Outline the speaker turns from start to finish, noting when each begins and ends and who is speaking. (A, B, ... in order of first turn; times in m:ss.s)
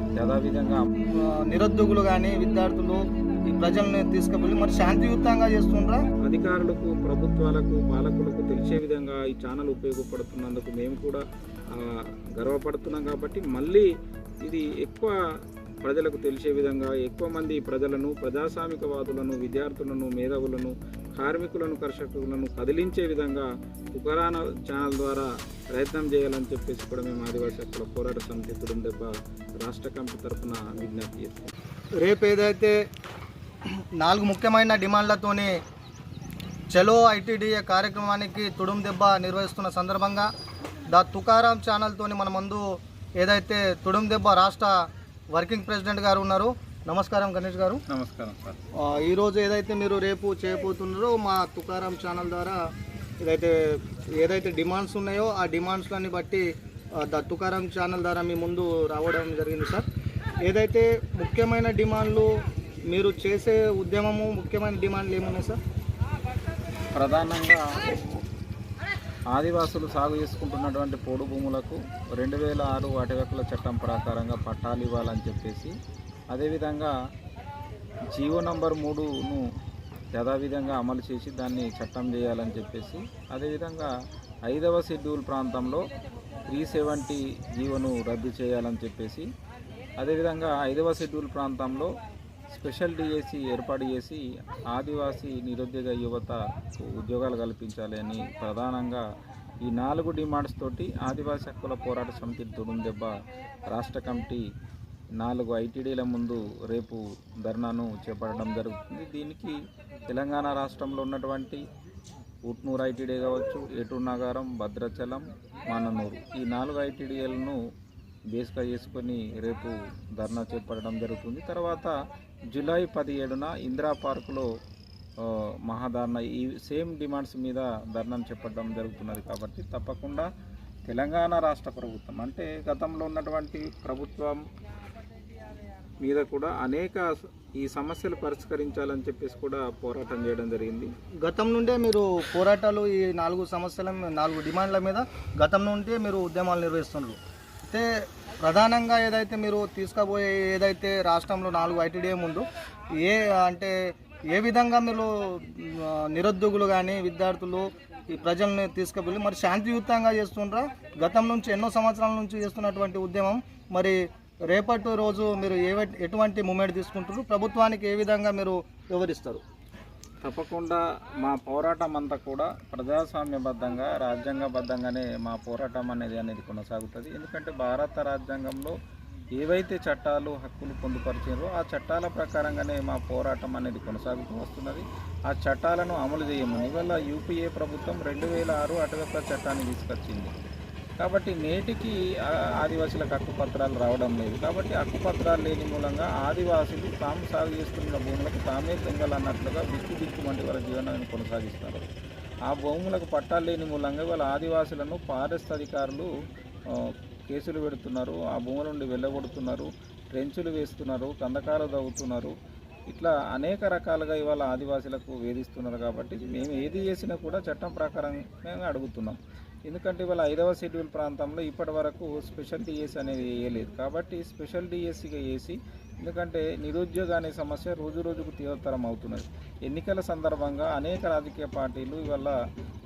0:00.2-0:00.9 A
0:01.2-0:06.0 B
0:06.2-0:11.2 A
0:11.7-0:13.9 A
0:14.4-0:15.2 A
0:15.8-0:31.5 A
0:32.0-0:32.7 B
0:34.0-0:35.5 B
0:36.7-0:40.3 B
0:40.9-0:47.8 B
0:47.9-0:48.6 A
0:48.8-0:52.6 B
0:53.2-0:56.4 B
0:57.0-0:59.9 B
1:00.4-1:02.3 B
1:02.9-1:05.6 B
1:06.9-1:08.0 A
1:09.3-1:15.7 A
1:16.3-1:16.9 A
1:18.1-1:19.4 A
1:20.1-1:23.9 A
1:24.4-1:25.9 A
1:26.5-1:29.3 A
1:30.0-1:31.9 A
1:32.5-1:39.0 A
1:39.6-1:43.1 A
1:43.7-1:44.4 A
1:45.2-1:49.6 A
1:50.1-1:51.6 A
1:52.4-1:57.6 A
1:58.3-2:01.9 A
2:02.5-2:04.4 A
2:05.2-2:10.3 A
2:10.9-2:14.4 A
2:16.0-2:20.9 A
2:21.2-2:27.8 B
2:28.4-2:32.4 B
2:33.0-2:44.0 B
2:44.5-2:49.4 B
2:50.2-2:58.8 A
2:59.4-3:10.3 A
3:11.0-3:21.9 A
3:22.4-3:26.1 A
3:26.7-3:32.3 A
3:32.9-3:52.3 A